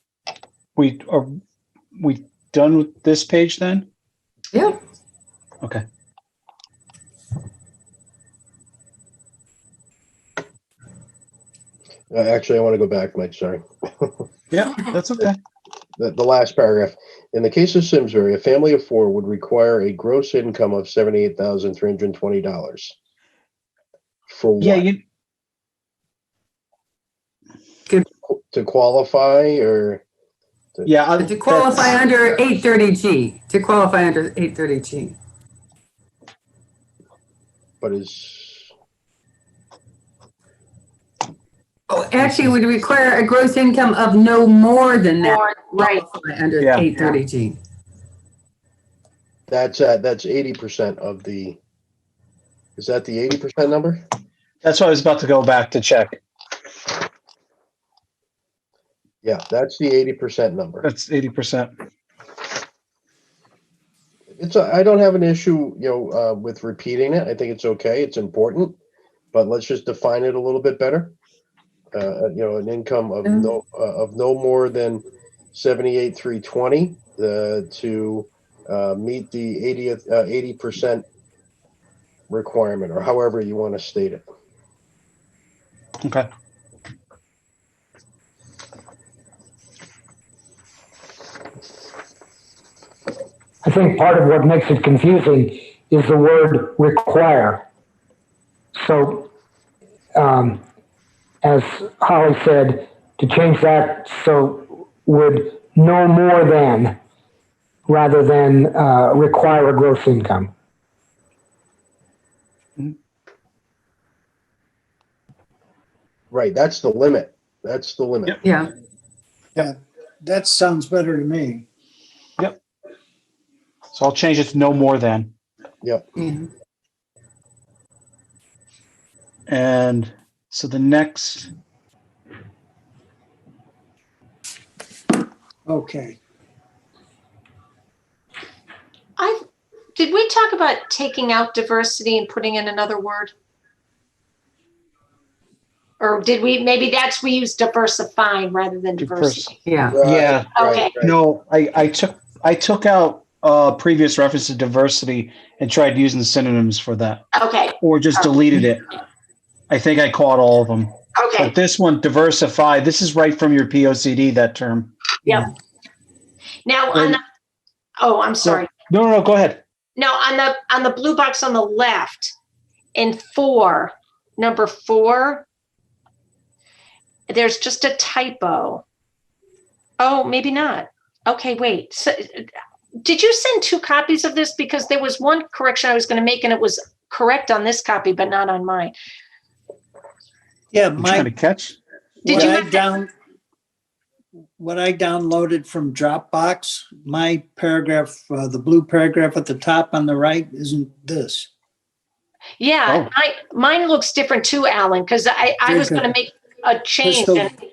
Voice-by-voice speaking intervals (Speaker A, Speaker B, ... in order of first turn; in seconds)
Speaker A: 0.8-1.4, 2.0-3.9, 14.5-15.4, 24.6-25.0, 30.9-32.0, 46.6-46.9, 54.6-56.2, 60.8-61.7, 86.0-86.3, 123.9-125.3, 129.5-131.5, 149.0-149.5, 150.0-150.5, 151.0-157.2, 157.8-158.8, 159.7-164.9, 168.4-169.6, 191.0-191.7
Speaker B: 4.5-4.8, 31.2-35.2, 41.9-47.6, 73.2-73.5, 118.4-118.7, 126.2-126.5, 149.7-150.0
Speaker C: 12.1-14.3, 16.0-22.9, 24.3-24.9, 28.3-30.0, 37.8-38.6, 49.5-51.6, 52.8-54.0, 59.2-60.9, 64.4-68.8, 69.3-71.1, 71.9-81.1, 82.3-84.2, 116.3-118.4, 149.9-151.2
Speaker D: 45.2-46.0, 140.0-143.3, 146.0-149.6, 150.6-150.9, 157.3-158.3, 161.2-161.6, 166.7-167.2, 168.0-168.7, 170.0-172.3, 173.0-175.4, 177.3-178.8, 180.0-182.5, 183.0-188.9, 192.3-192.8, 202.6-207.5
Speaker E: 93.6-97.6, 98.8-99.3, 100.2-100.6, 101.4-107.0, 107.9-110.5
Speaker F: 119.5-121.7, 135.7-136.2, 190.7-191.3, 192.2-193.1, 194.6-201.5, 205.7-206.1, 207.0-207.5